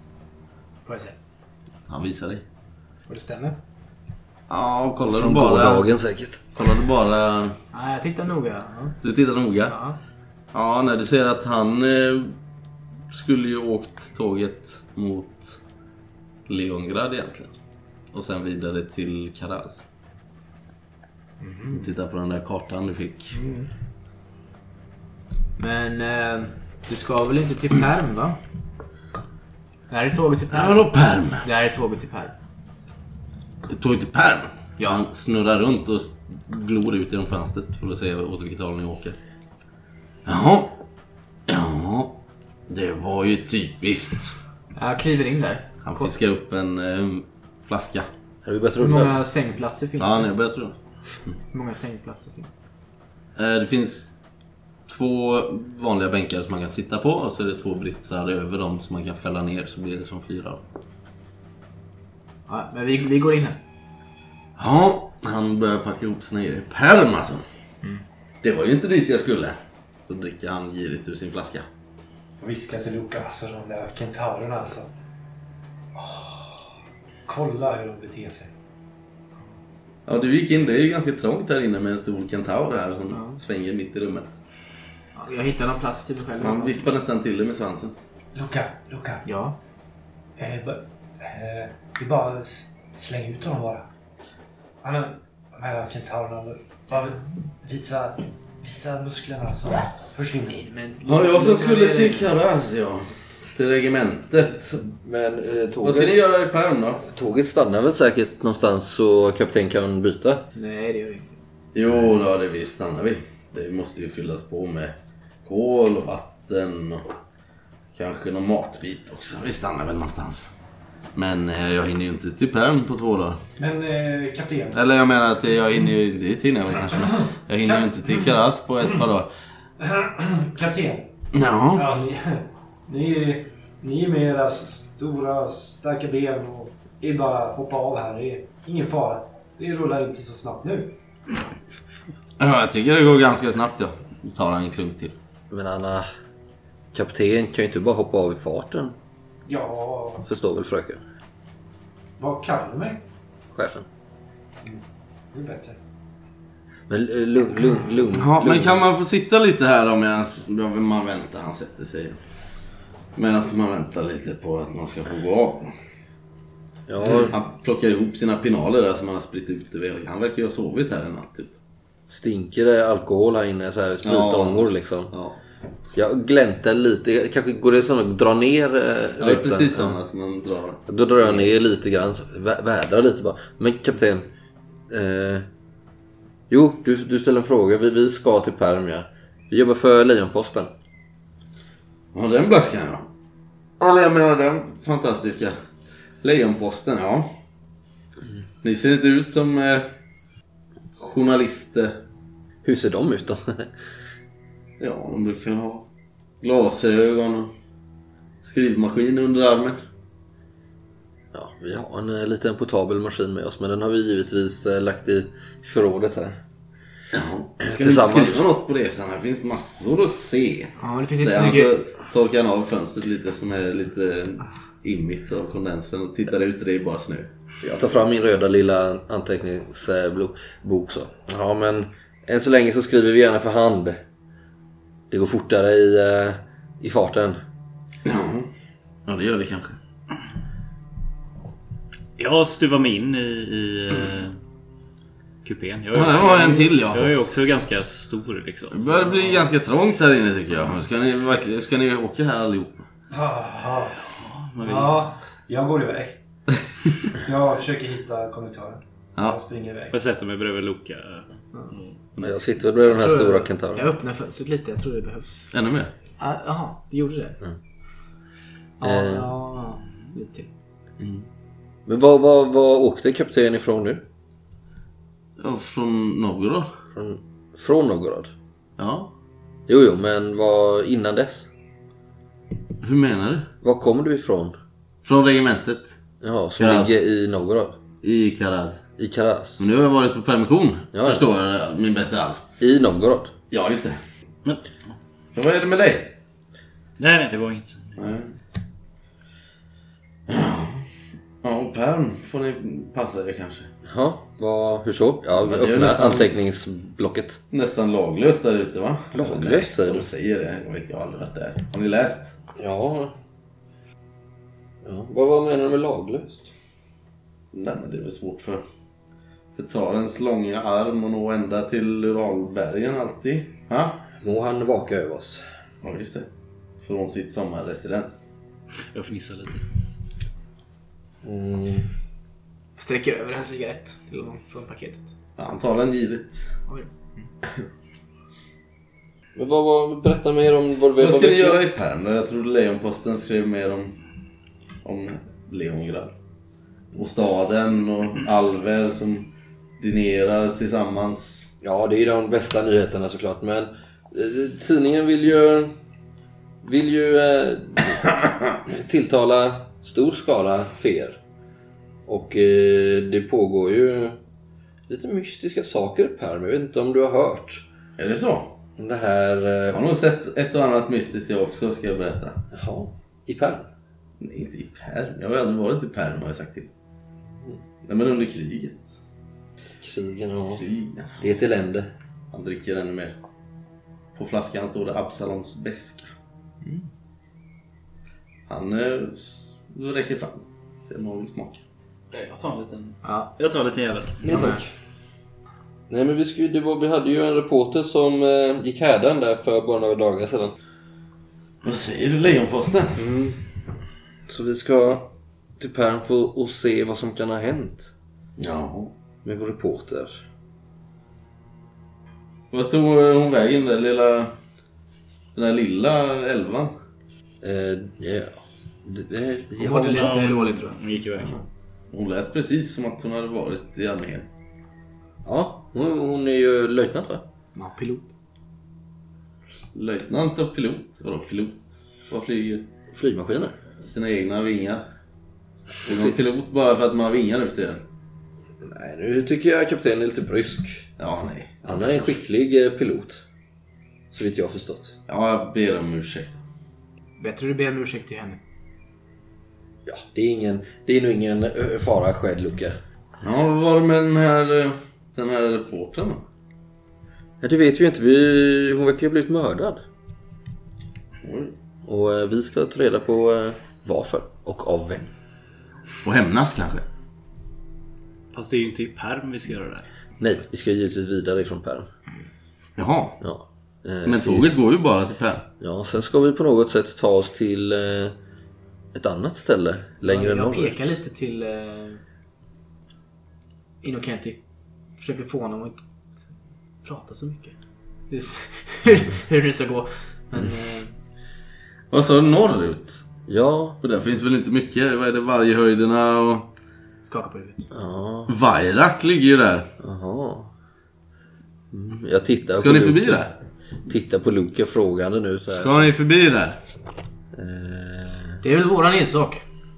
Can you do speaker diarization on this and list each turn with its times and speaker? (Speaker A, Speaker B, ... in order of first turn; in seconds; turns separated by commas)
Speaker A: 0.8-1.2, Speaker B: 1.9-2.4, Speaker A: 3.1-3.6, Speaker B: 4.5-5.9, Speaker C: 5.1-6.4, Speaker B: 6.5-7.6, Speaker A: 7.7-9.0, Speaker B: 9.0-9.8, Speaker A: 9.6-10.0, Speaker B: 10.5-12.4, Speaker B: 13.1-15.6, Speaker B: 16.5-17.5, Speaker B: 18.1-19.9, Speaker A: 21.4-21.9, Speaker B: 21.7-23.4, Speaker A: 23.3-23.7, Speaker A: 25.6-28.4, Speaker A: 29.9-30.9, Speaker B: 30.5-31.5, Speaker A: 31.4-32.4, Speaker B: 33.7-39.2, Speaker A: 34.8-35.0, Speaker B: 40.3-40.8, Speaker B: 41.5-44.3, Speaker A: 44.8-46.2, Speaker B: 45.8-48.1, Speaker C: 48.4-49.2, Speaker A: 48.8-50.3, Speaker B: 50.0-50.8, Speaker A: 51.5-52.5, Speaker B: 53.4-54.2, Speaker B: 54.9-60.6, Speaker A: 62.5-63.6, Speaker B: 64.6-67.4, Speaker B: 68.4-71.7, Speaker D: 72.4-74.9, Speaker D: 76.0-76.7, Speaker D: 77.3-78.5, Speaker B: 80.1-84.3, Speaker A: 83.1-83.4, Speaker A: 85.2-86.9, Speaker B: 86.4-88.0, Speaker D: 88.3-89.2, Speaker A: 89.2-89.6, Speaker D: 90.4-93.9, Speaker D: 94.8-100.7, Speaker A: 100.5-102.3, Speaker B: 101.0-104.9, Speaker C: 105.0-106.2, Speaker B: 105.8-107.0, Speaker C: 107.1-110.5, Speaker A: 110.5-111.4, Speaker B: 111.7-117.0, Speaker B: 118.0-120.5, Speaker B: 121.2-123.4, Speaker D: 123.6-124.8, Speaker B: 124.7-129.3, Speaker D: 127.7-128.3, Speaker D: 129.8-131.1, Speaker B: 131.3-131.9, Speaker D: 131.8-140.9, Speaker B: 142.4-145.2, Speaker C: 145.5-146.1, Speaker C: 146.9-149.0, Speaker D: 149.4-150.2, Speaker C: 150.2-151.0, Speaker D: 152.2-153.0, Speaker C: 153.5-153.9, Speaker D: 155.3-155.8, Speaker C: 156.9-158.8, Speaker B: 158.1-162.2, Speaker B: 163.2-165.8, Speaker C: 166.9-167.4, Speaker B: 167.0-171.5, Speaker C: 172.1-175.1, Speaker B: 174.0-175.4, Speaker C: 175.9-180.0, Speaker B: 179.2-181.5, Speaker C: 180.9-184.3, Speaker C: 184.9-185.5, Speaker C: 186.5-190.7, Speaker B: 192.1-193.1, Speaker B: 193.8-195.5, Speaker B: 196.2-197.3, Speaker B: 198.6-199.9, Speaker B: 201.0-202.0, Speaker C: 202.7-203.7, Speaker B: 204.8-205.9, Speaker B: 206.4-207.5, Speaker B: 208.4-209.8, Speaker C: 211.3-216.4, Speaker B: 217.1-227.3, Speaker C: 217.6-218.4, Speaker A: 220.8-221.8, Speaker C: 227.6-234.0, Speaker C: 235.1-237.4, Speaker B: 238.1-238.5, Speaker B: 239.1-239.8, Speaker E: 242.2-244.4, Speaker E: 245.4-249.5, Speaker B: 245.9-247.3, Speaker B: 248.7-252.8, Speaker D: 253.1-256.2, Speaker E: 254.1-255.1, Speaker D: 257.1-260.0, Speaker E: 259.9-262.0, Speaker C: 262.2-263.9, Speaker A: 262.8-265.5, Speaker B: 265.5-265.9, Speaker A: 266.2-267.4, Speaker A: 268.8-270.5, Speaker C: 268.8-269.4, Speaker B: 271.0-271.2, Speaker C: 271.9-274.1, Speaker B: 275.4-276.7, Speaker C: 276.9-278.3, Speaker B: 278.8-279.1, Speaker C: 279.7-281.5, Speaker B: 282.8-283.5, Speaker C: 283.6-284.6, Speaker B: 285.0-286.0, Speaker C: 286.2-287.8, Speaker B: 286.6-286.9, Speaker B: 288.0-288.9, Speaker C: 289.0-289.7, Speaker B: 289.6-292.4, Speaker C: 290.9-291.3, Speaker C: 292.6-293.3, Speaker B: 293.5-294.0, Speaker B: 295.3-296.1, Speaker E: 297.0-298.0, Speaker B: 298.0-298.4, Speaker B: 300.3-300.9, Speaker B: 301.4-303.7, Speaker C: 303.9-307.4, Speaker B: 305.4-306.3, Speaker B: 307.5-312.4, Speaker C: 309.1-310.1, Speaker C: 312.6-313.1, Speaker C: 314.8-316.5, Speaker B: 317.5-318.6, Speaker B: 319.5-324.0, Speaker C: 324.2-325.4, Speaker B: 325.8-326.3, Speaker B: 326.8-328.3, Speaker E: 328.9-329.6, Speaker C: 331.2-331.9, Speaker A: 332.8-335.1, Speaker B: 335.4-336.5, Speaker A: 336.7-337.2, Speaker C: 339.4-341.6, Speaker B: 341.0-343.9, Speaker B: 344.8-346.1, Speaker B: 346.9-351.5, Speaker C: 351.6-355.7, Speaker C: 356.6-358.1, Speaker C: 358.6-361.2, Speaker C: 362.1-364.2, Speaker C: 364.9-367.7, Speaker B: 368.0-368.6, Speaker C: 368.8-369.8, Speaker B: 369.7-372.4, Speaker C: 372.5-373.7, Speaker B: 374.2-376.7, Speaker B: 377.8-379.0, Speaker C: 379.8-380.6, Speaker B: 380.5-381.3, Speaker C: 381.2-381.9, Speaker B: 382.3-383.2, Speaker B: 384.1-386.1, Speaker B: 388.5-391.6, Speaker E: 392.1-394.5, Speaker A: 393.0-393.4, Speaker C: 394.2-394.7, Speaker A: 394.3-394.6, Speaker C: 395.9-400.6, Speaker B: 401.6-403.0, Speaker C: 403.0-403.4, Speaker C: 404.3-407.9, Speaker B: 408.4-408.9, Speaker C: 409.2-410.2, Speaker B: 412.5-414.3, Speaker B: 415.4-416.7, Speaker C: 417.4-420.2, Speaker A: 419.6-420.8, Speaker E: 419.9-421.4, Speaker B: 421.9-424.3, Speaker C: 425.2-427.2, Speaker A: 427.6-428.1, Speaker B: 429.8-432.7, Speaker C: 432.9-433.6, Speaker B: 433.8-434.9, Speaker C: 435.9-436.2, Speaker B: 435.9-437.8, Speaker C: 438.6-440.9, Speaker B: 441.0-442.1, Speaker C: 441.6-443.2, Speaker C: 444.1-445.0, Speaker B: 445.1-446.4, Speaker A: 447.2-448.4, Speaker C: 449.9-452.8, Speaker B: 453.2-456.2, Speaker C: 457.4-459.8, Speaker B: 461.2-461.5, Speaker C: 461.9-465.1, Speaker B: 466.0-466.9, Speaker E: 468.3-469.9, Speaker C: 470.2-471.9, Speaker B: 472.8-473.2, Speaker C: 473.2-474.5, Speaker B: 474.1-475.5, Speaker C: 475.6-478.1, Speaker C: 478.9-481.0, Speaker A: 480.0-482.0, Speaker A: 483.8-484.4, Speaker A: 485.0-485.8, Speaker A: 486.8-487.6, Speaker A: 488.1-490.9, Speaker B: 491.9-493.1, Speaker C: 493.3-493.8, Speaker B: 493.8-496.5, Speaker A: 497.0-497.7, Speaker C: 497.7-498.3, Speaker B: 498.3-499.7, Speaker C: 499.8-500.5, Speaker C: 501.7-503.2, Speaker B: 502.6-503.4, Speaker C: 503.9-505.9, Speaker B: 505.5-506.6, Speaker C: 507.3-508.4, Speaker A: 508.4-509.4